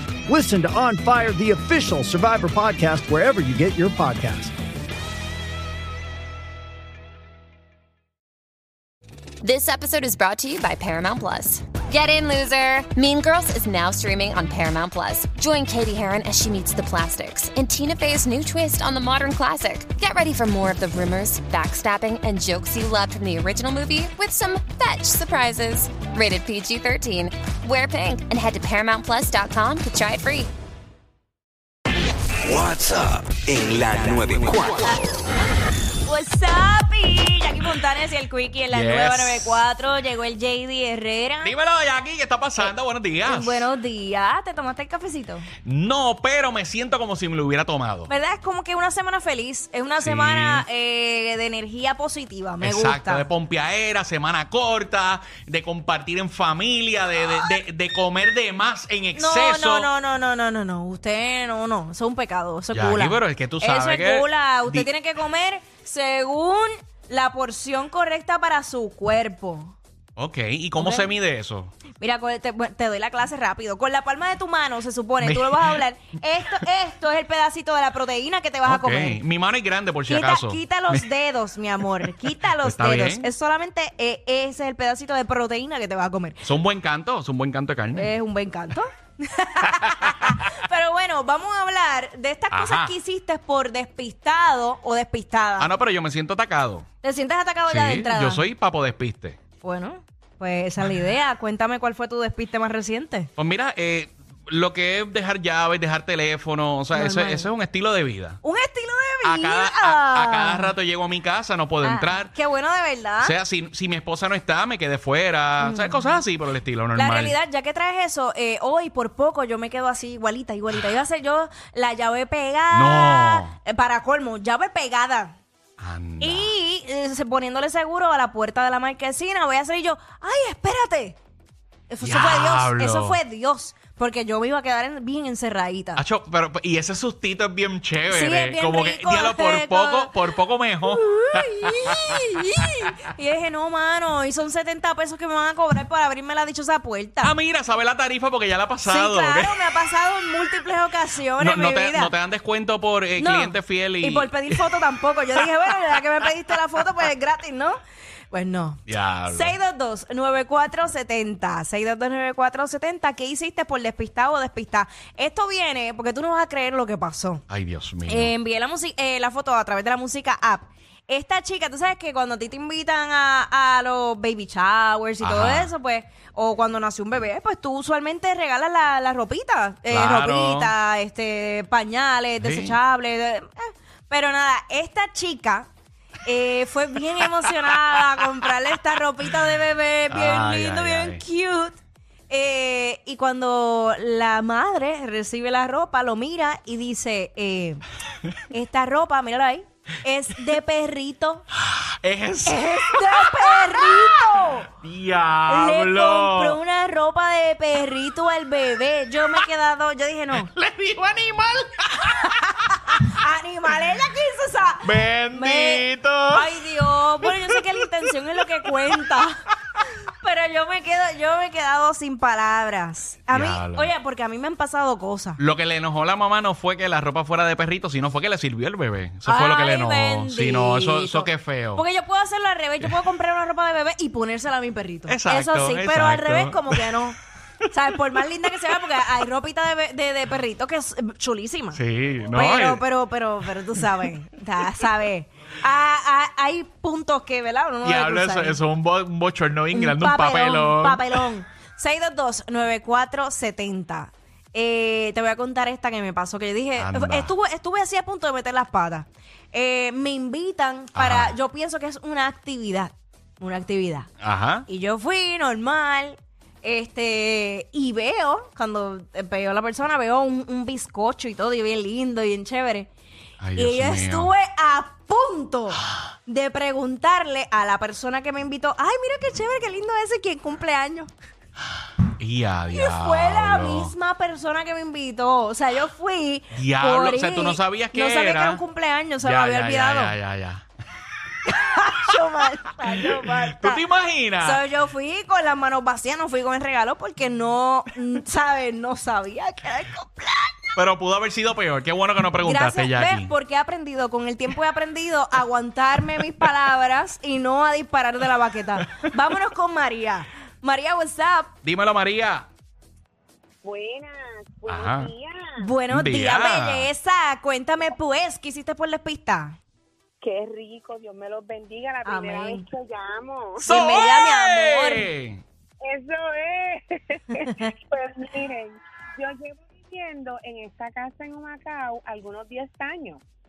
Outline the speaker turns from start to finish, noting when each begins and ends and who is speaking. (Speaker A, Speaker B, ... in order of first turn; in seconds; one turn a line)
Speaker A: 0.3-4.5
Speaker B: 9.4-30.5
Speaker C: 32.4-35.2
Speaker D: 33.9-34.6
Speaker E: 36.0-41.5
Speaker D: 38.7-39.6
Speaker D: 41.4-43.7
Speaker E: 43.2-45.5
Speaker D: 45.6-48.1
Speaker E: 48.1-53.3
Speaker D: 50.0-50.6
Speaker D: 52.6-59.9
Speaker E: 59.1-69.8
Speaker D: 62.7-64.9
Speaker D: 70.2-71.7
Speaker E: 70.8-71.1
Speaker E: 72.0-79.2
Speaker D: 75.2-75.8
Speaker D: 78.6-81.1
Speaker E: 80.1-86.4
Speaker D: 82.2-83.3
Speaker D: 86.4-88.1
Speaker E: 88.0-95.7
Speaker D: 92.5-92.9
Speaker D: 95.6-96.9
Speaker E: 97.0-98.5
Speaker D: 97.7-99.4
Speaker E: 99.6-103.3
Speaker D: 103.4-108.4
Speaker E: 106.9-107.5
Speaker E: 108.4-110.7
Speaker D: 109.2-112.3
Speaker E: 111.8-113.3
Speaker D: 113.2-117.3
Speaker E: 115.6-116.1
Speaker E: 117.0-125.4
Speaker D: 122.7-123.6
Speaker D: 125.8-126.5
Speaker E: 126.2-131.2
Speaker E: 131.9-136.0
Speaker D: 132.0-133.2
Speaker D: 136.0-142.9
Speaker E: 138.1-140.2
Speaker E: 140.9-147.3
Speaker D: 147.2-149.6
Speaker E: 148.8-152.1
Speaker D: 151.4-154.6
Speaker E: 153.2-157.8
Speaker E: 158.3-167.4
Speaker D: 158.9-159.6
Speaker D: 167.5-168.3
Speaker E: 168.1-185.7
Speaker D: 175.2-175.7
Speaker D: 179.9-180.7
Speaker D: 182.4-182.8
Speaker E: 186.2-197.8
Speaker D: 190.1-191.2
Speaker E: 198.5-201.4
Speaker D: 201.6-206.6
Speaker E: 202.5-204.7
Speaker E: 205.5-210.5
Speaker D: 210.3-213.1
Speaker E: 213.0-219.4
Speaker D: 214.8-216.5
Speaker D: 217.2-217.7
Speaker E: 220.1-225.4
Speaker D: 223.3-223.9
Speaker D: 225.4-231.8
Speaker E: 229.2-237.2
Speaker D: 235.1-237.0
Speaker E: 237.7-241.8
Speaker D: 241.7-242.8
Speaker E: 242.3-248.6
Speaker D: 247.8-251.2
Speaker E: 249.7-264.1
Speaker D: 256.8-257.3
Speaker D: 260.9-261.4
Speaker D: 264.2-264.7
Speaker E: 264.7-272.9
Speaker D: 273.4-274.3
Speaker E: 273.6-281.1
Speaker D: 282.2-283.9
Speaker E: 282.7-290.1
Speaker D: 286.5-288.6
Speaker D: 289.2-290.6
Speaker E: 291.4-293.8
Speaker D: 292.9-294.6
Speaker E: 294.4-300.7
Speaker D: 300.8-303.3
Speaker E: 302.4-311.5
Speaker D: 311.6-312.5
Speaker F: 313.6-315.5
Speaker D: 314.7-315.1
Speaker E: 315.6-319.6
Speaker D: 315.9-316.9
Speaker F: 320.2-324.0
Speaker E: 322.1-322.6
Speaker D: 323.6-325.4
Speaker E: 323.7-325.1
Speaker F: 325.8-333.2